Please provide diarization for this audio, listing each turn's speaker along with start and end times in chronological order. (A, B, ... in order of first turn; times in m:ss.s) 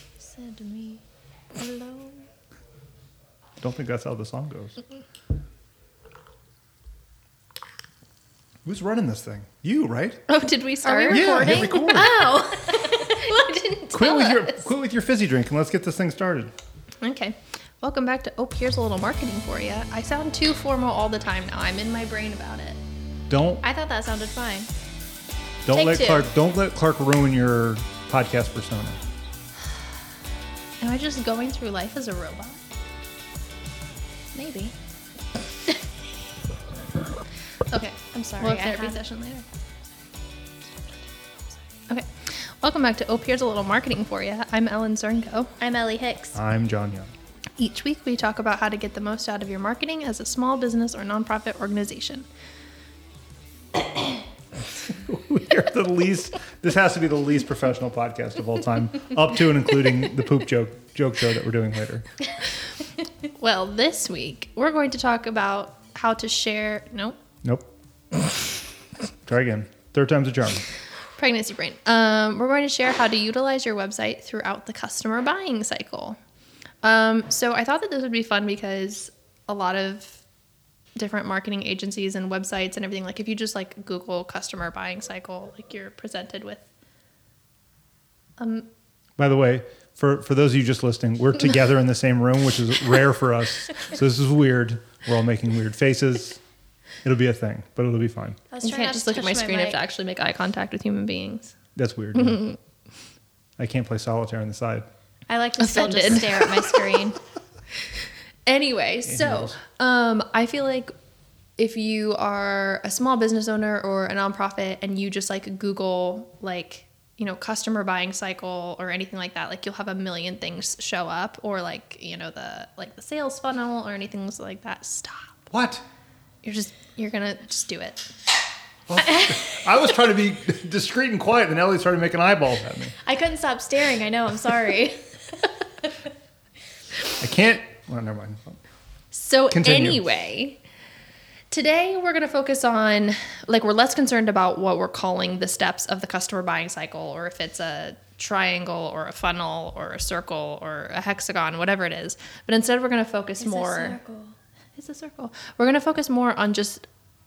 0:00.2-0:01.0 A
0:01.5-0:02.3 A
0:03.6-0:04.8 B
0:08.6-0:10.2 B
0:10.3-0:14.6 C
0:10.8-0:13.6 A
0:11.1-0:12.1 B
0:13.9-0:16.5 B
0:17.0-0:22.8 C
0:23.3-0:23.6 B
0:23.6-0:24.7 A
0:25.6-0:29.0 B
0:25.7-0:26.3 A
0:30.8-0:32.6 C
0:34.3-0:34.7 A
0:37.7-0:39.4 C
0:38.1-0:39.0 A
0:41.9-0:45.5 C
0:45.6-0:46.4 A
0:46.3-0:47.1 B
0:47.6-0:52.2 C
0:54.9-1:02.1 B
1:03.4-1:07.2 C
1:09.2-1:10.6 B
1:11.2-1:16.2 C
1:16.8-1:20.2 C
1:20.9-1:26.6 C
1:28.4-1:28.7 C
1:29.2-1:36.4 B
1:37.0-1:38.4 B
1:38.5-1:39.8 A
1:38.6-1:41.6 C
1:41.8-1:42.4 B
1:42.2-1:42.6 C
1:43.6-1:44.8 B
1:45.3-1:47.2 A
1:45.6-1:46.8 C
1:48.4-1:50.9 C
1:49.0-1:49.6 B
1:51.6-2:05.5 C
2:05.5-2:05.8 B
2:06.4-2:08.1 C
2:08.9-2:12.9 B
2:13.0-2:15.2 A
2:17.2-2:18.6 B
2:19.1-2:20.6 C
2:19.5-2:20.1 B
2:21.5-2:34.0 C
2:33.4-2:34.4 A
2:34.8-2:36.8 C